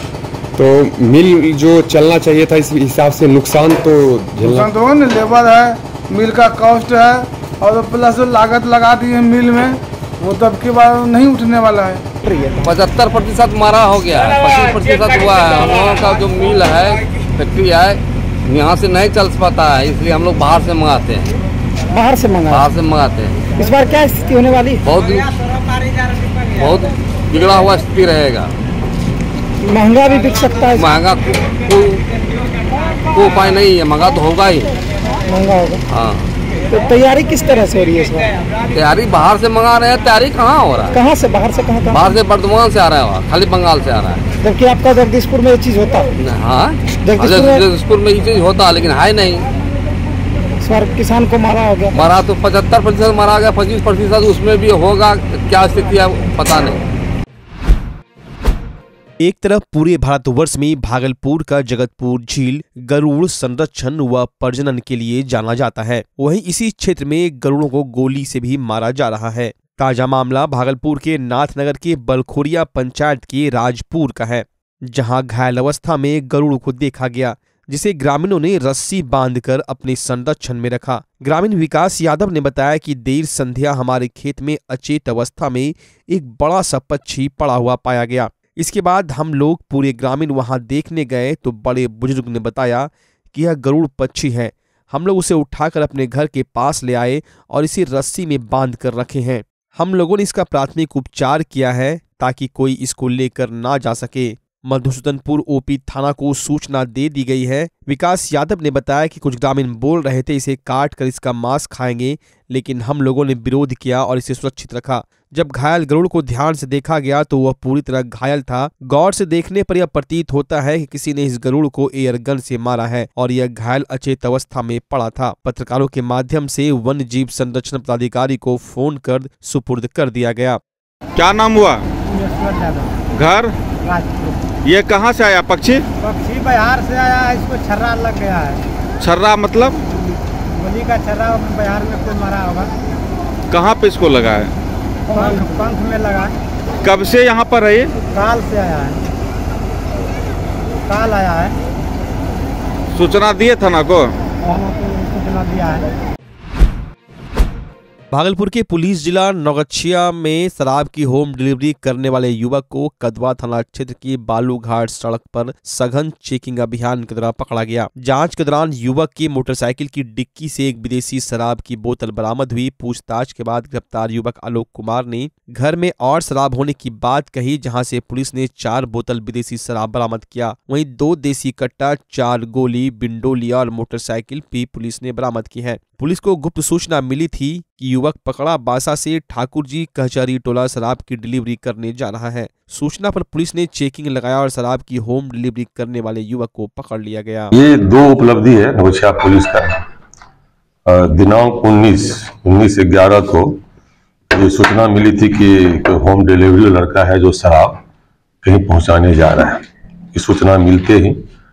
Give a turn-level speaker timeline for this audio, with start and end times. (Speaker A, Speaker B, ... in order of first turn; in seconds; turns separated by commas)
Speaker A: 0.6-4.6, Speaker B: 4.4-12.0, Speaker C: 12.2-12.7, Speaker D: 12.6-21.3, Speaker C: 21.9-22.7, Speaker D: 22.5-23.4, Speaker C: 23.6-24.8, Speaker D: 24.8-25.3, Speaker D: 26.6-28.5, Speaker C: 29.7-31.0, Speaker D: 30.8-32.0, Speaker D: 33.1-34.7, Speaker C: 35.3-35.8, Speaker D: 35.9-36.3, Speaker C: 36.7-38.3, Speaker D: 38.7-40.9, Speaker C: 40.9-42.2, Speaker D: 41.9-44.2, Speaker C: 44.4-46.1, Speaker D: 46.2-49.4, Speaker C: 47.0-47.7, Speaker C: 50.6-52.0, Speaker D: 51.9-56.8, Speaker E: 59.2-130.6, Speaker F: 131.2-131.8, Speaker G: 132.1-133.0, Speaker F: 133.1-133.5, Speaker G: 133.8-134.5, Speaker F: 134.6-135.8, Speaker G: 136.0-138.6, Speaker F: 139.0-139.8, Speaker G: 140.5-142.7, Speaker F: 143.5-144.5, Speaker G: 145.1-146.4, Speaker F: 146.8-147.9, Speaker G: 148.1-149.0, Speaker G: 150.9-151.5, Speaker F: 152.9-154.1, Speaker G: 154.4-155.9, Speaker E: 158.1-197.5, Speaker H: 197.5-199.7, Speaker H: 200.9-203.6, Speaker H: 204.3-207.8, Speaker H: 208.4-209.6, Speaker H: 210.1-211.2